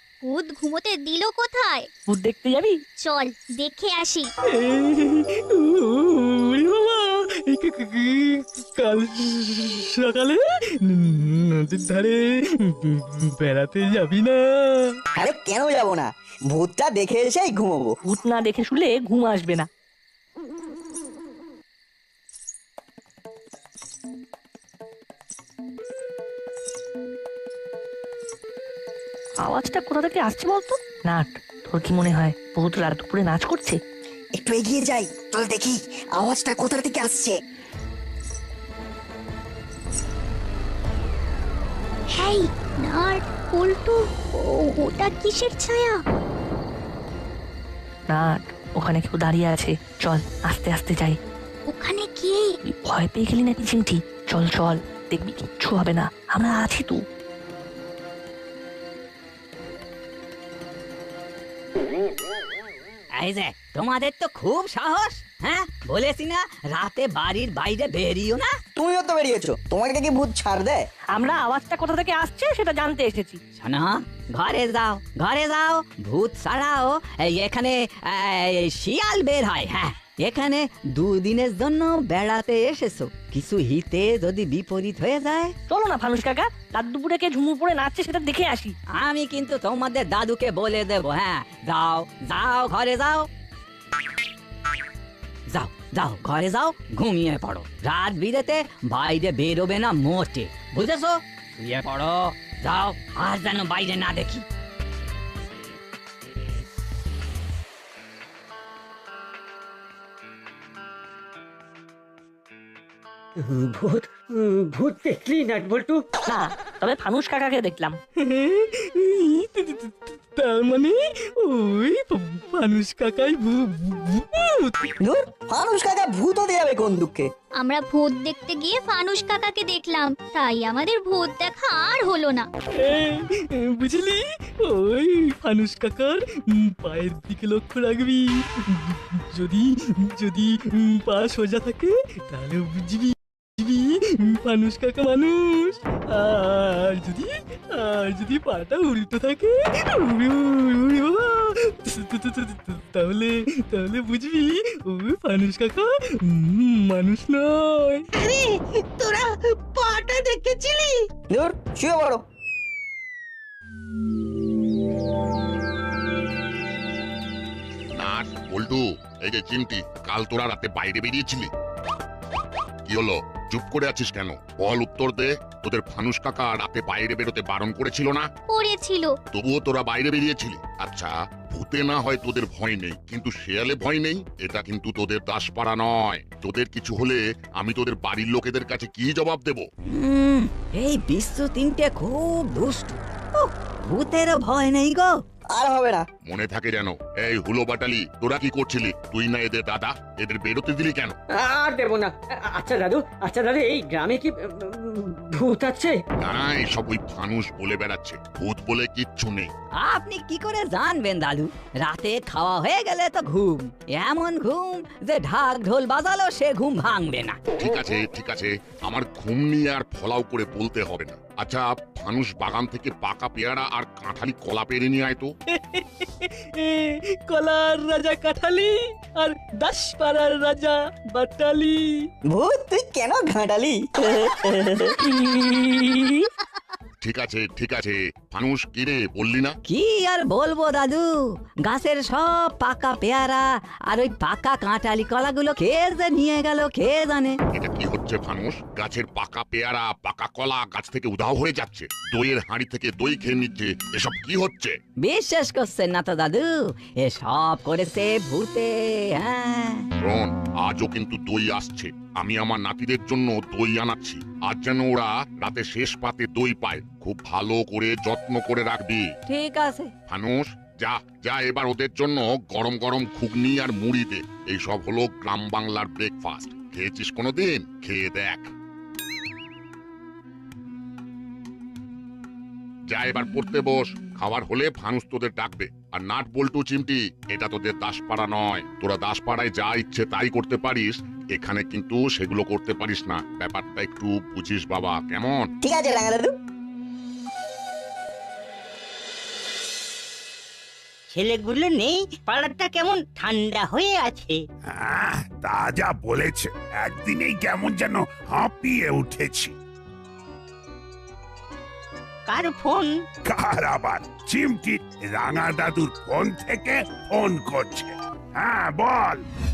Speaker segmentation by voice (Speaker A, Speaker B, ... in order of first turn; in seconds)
Speaker A: 0.2-1.9, 3.0-4.3, 42.1-46.0, 51.7-52.5, 127.6-132.5, 178.5-179.2
Speaker B: 2.1-2.8, 18.1-19.7, 29.4-33.8, 48.1-51.2, 52.7-57.0, 71.1-73.4, 85.7-88.8, 116.3-118.0, 235.3-236.1
Speaker C: 4.6-15.0, 118.2-124.9, 132.8-158.0, 225.6-232.1
Speaker D: 15.2-18.0, 34.4-37.4, 68.8-70.8, 125.0-127.3, 161.3-162.2, 195.5-196.1, 232.3-234.9, 295.6-296.3
Speaker E: 63.2-68.6, 73.6-85.5, 89.0-93.3, 95.5-104.5, 189.9-195.1, 209.8-217.4, 239.7-247.4, 255.0-259.9, 269.3-269.9
Speaker F: 113.4-116.0, 201.3-206.0
Speaker G: 168.0-171.5, 172.9-178.3, 179.3-189.7, 196.3-201.2, 206.2-209.5, 217.6-225.3, 237.0-239.6, 247.5-254.8, 260.0-269.1, 270.1-278.5, 282.9-295.5
Speaker H: 301.1-304.4, 312.3-312.9
Speaker I: 304.7-309.5, 313.3-319.2